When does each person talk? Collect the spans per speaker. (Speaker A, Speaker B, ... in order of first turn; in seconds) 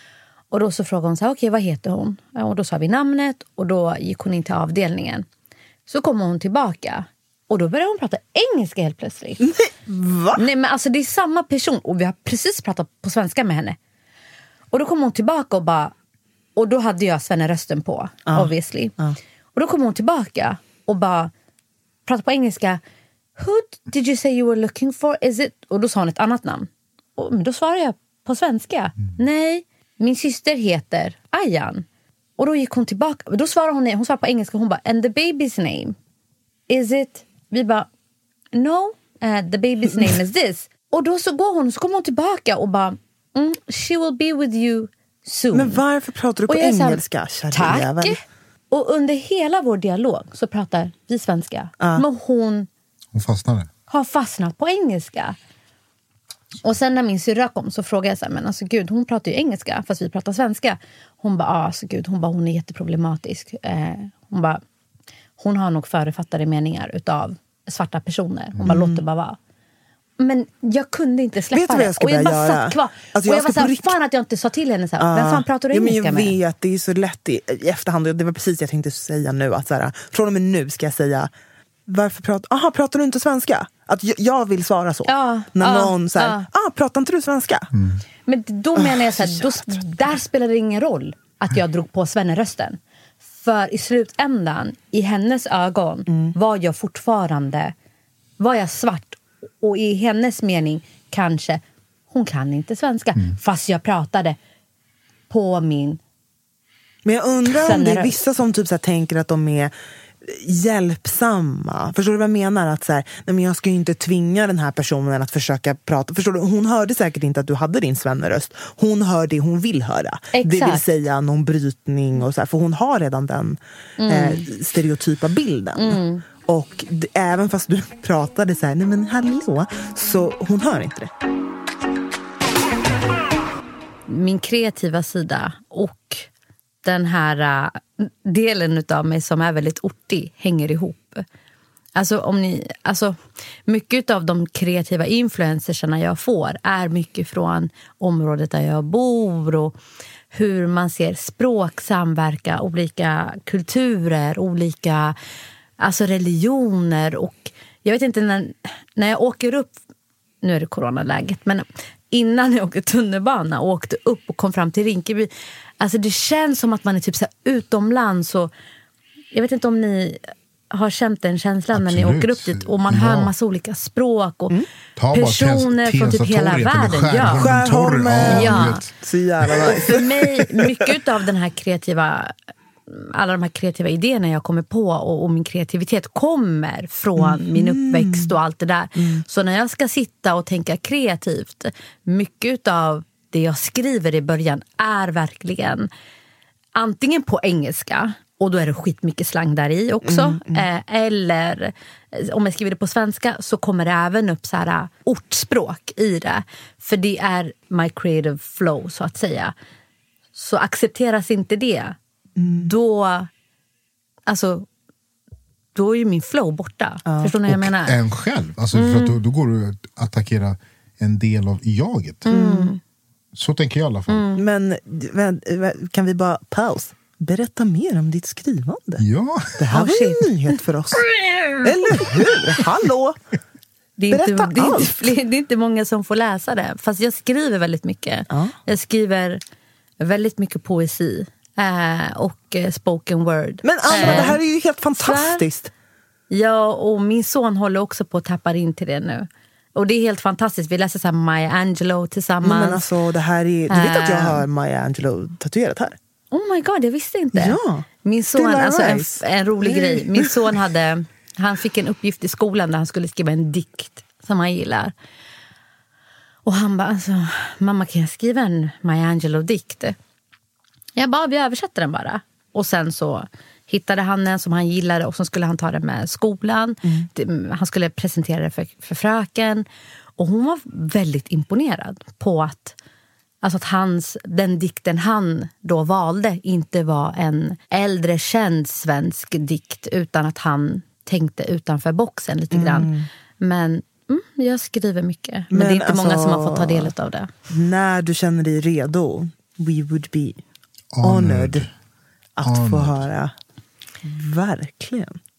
Speaker A: 0.5-5.2, 5.9-9.4, 10.3-13.8, 14.7-15.9, 16.6-18.9, 19.5-21.3, 22.1-22.8, 23.4-31.8, 32.4-36.0, 36.7-37.9, 38.5-45.8, 46.5-48.2, 48.7-52.7, 53.9-55.4, 56.6-64.6, 65.4-69.4, 70.2-76.3, 85.1-86.5, 88.3-92.8, 93.4-97.7, 98.4-104.4, 105.3-106.0, 107.5-108.1, 120.3-120.8, 124.0-124.4, 125.8-126.2, 134.1-136.3, 136.8-141.2, 141.9-149.7, 150.3-155.2, 155.8-159.7, 160.4-168.5, 169.3-174.5, 175.1-177.4, 178.2-178.8, 179.9-182.3, 182.9-195.9, 196.7-209.5, 210.3-212.0, 212.6-213.3, 214.3-214.7, 215.7-218.0, 218.7-219.2, 222.3-222.8, 224.1-224.4, 229.7-230.5, 231.2-232.1, 234.0-239.4, 240.0-244.4, 245.0-245.4, 246.3-252.8, 253.7-254.4, 256.3-264.9, 266.4-269.9, 270.9-279.6, 280.2-282.8, 283.4-297.3
Speaker B: 9.4-10.4, 18.3-19.1, 45.5-48.2, 51.8-52.0, 68.7-69.0, 71.5-73.9, 75.0-81.3, 81.9-87.7, 88.8-89.9, 96.1-96.3, 107.0-131.1, 177.3-180.8, 187.2-188.3, 188.9-189.2, 200.0-200.7, 212.4-212.7, 217.1-217.3, 222.3-222.7, 224.3-229.0, 229.6-231.1, 231.6-233.2, 234.1-235.1, 238.3-238.5, 243.6-245.7, 252.4-255.9, 257.3-260.3, 292.5-293.1, 295.5-296.9, 297.5-300.4, 301.0-301.6, 302.4-303.3, 304.0-305.2
Speaker C: 53.1-53.7, 87.7-88.0, 171.7-173.3, 174.9-178.9, 217.5-222.3, 223.3-224.3, 229.0-229.6, 300.9-301.7, 302.4-303.1